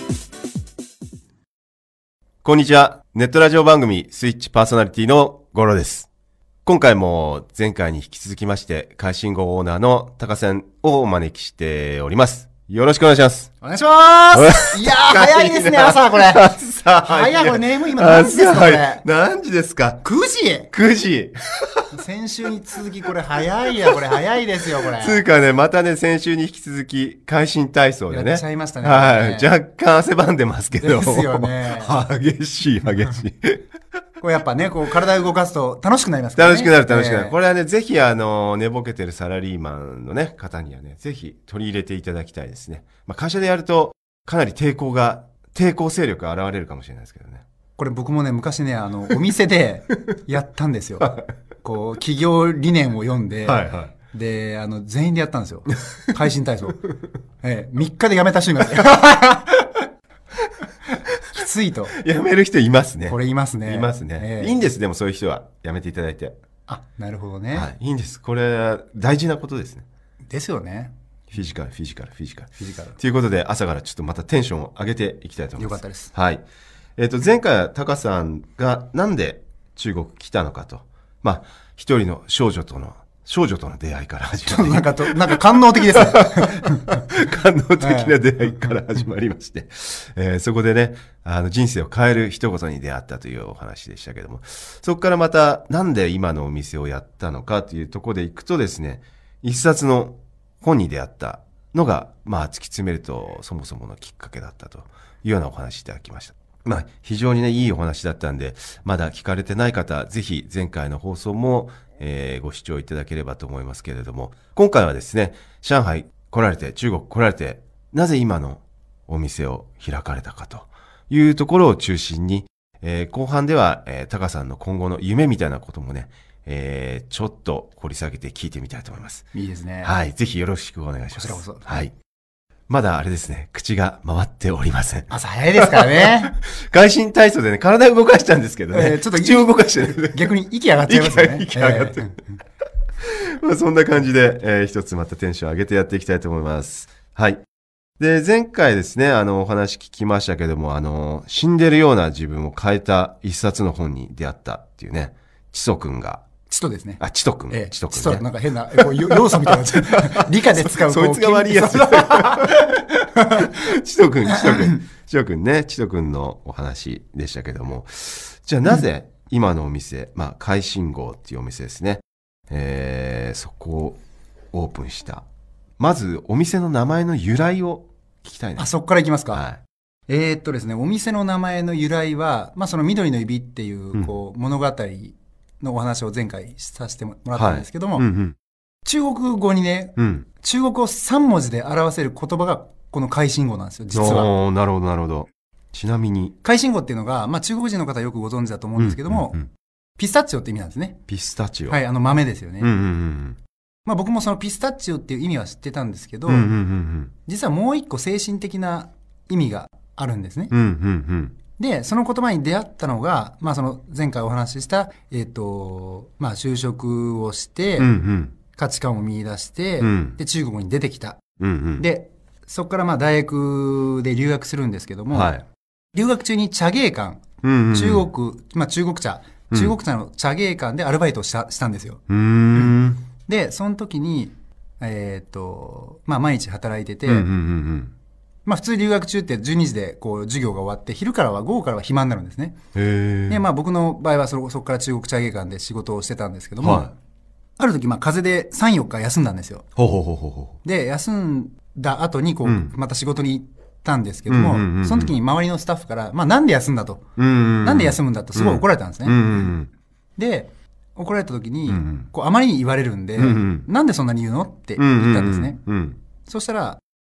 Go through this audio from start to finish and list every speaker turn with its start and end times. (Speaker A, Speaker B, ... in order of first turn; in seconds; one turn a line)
Speaker A: 2.4-6.1
Speaker A: 6.6-13.5
Speaker B: 13.6-19.0
Speaker A: 14.3-20.0
Speaker B: 20.0-20.7
Speaker A: 20.7-21.9
Speaker B: 21.9-25.2
Speaker A: 24.8-33.7
Speaker B: 28.1-29.5
Speaker B: 30.8-32.0
Speaker B: 34.2-37.4
Speaker A: 36.4-47.4
Speaker B: 47.8-56.8
Speaker A: 53.4-53.9
Speaker B: 57.4-59.7
Speaker B: 61.3-61.9
Speaker A: 61.9-66.3
Speaker B: 63.1-64.6
Speaker B: 66.7-67.7
Speaker A: 67.5-69.8
Speaker B: 70.3-70.9
Speaker A: 71.3-76.4
Speaker B: 72.6-73.0
Speaker B: 75.6-76.1
Speaker A: 77.0-129.3
Speaker B: 84.5-87.0
Speaker B: 87.8-88.8
Speaker B: 129.3-129.9
Speaker A: 129.8-131.9
Speaker B: 131.1-131.7
Speaker A: 132.7-140.3
Speaker B: 135.1-136.3
Speaker B: 138.7-142.2
Speaker A: 140.9-142.2
Speaker A: 143.0-147.4
Speaker A: 148.0-156.2
Speaker B: 156.5-163.5
Speaker A: 157.0-162.7
Speaker A: 163.3-174.0
Speaker B: 164.3-164.6
Speaker A: 174.5-175.2
Speaker A: 175.8-178.7
Speaker B: 178.6-179.4
Speaker A: 179.3-179.6
Speaker B: 180.1-188.0
Speaker A: 187.3-188.3
Speaker B: 188.8-194.3
Speaker A: 189.9-190.3
Speaker A: 193.9-196.3
Speaker B: 196.4-199.4
Speaker A: 198.8-199.5
Speaker B: 200.0-201.0
Speaker A: 201.1-201.8
Speaker B: 201.7-202.7
Speaker A: 202.6-203.4
Speaker B: 203.8-206.5
Speaker A: 206.3-207.1
Speaker B: 207.2-210.5
Speaker A: 210.5-211.3
Speaker B: 211.6-217.9
Speaker A: 217.8-218.3
Speaker B: 218.5-221.2
Speaker A: 219.8-220.2
Speaker A: 221.4-221.8
Speaker B: 221.8-225.3
Speaker A: 225.1-225.4
Speaker B: 225.9-232.0
Speaker A: 227.4-228.1
Speaker A: 232.1-233.0
Speaker B: 232.5-237.3
Speaker A: 237.1-237.9
Speaker B: 238.4-242.6
Speaker A: 242.7-243.4
Speaker B: 243.3-246.9
Speaker A: 246.6-246.9
Speaker B: 247.6-249.7
Speaker A: 249.8-250.6
Speaker B: 250.6-257.0
Speaker A: 252.4-252.7
Speaker A: 254.3-255.1
Speaker A: 257.2-259.7
Speaker B: 257.6-259.5
Speaker B: 260.2-265.6
Speaker A: 261.7-262.1
Speaker A: 263.2-263.6
Speaker A: 264.8-266.0
Speaker B: 266.2-266.8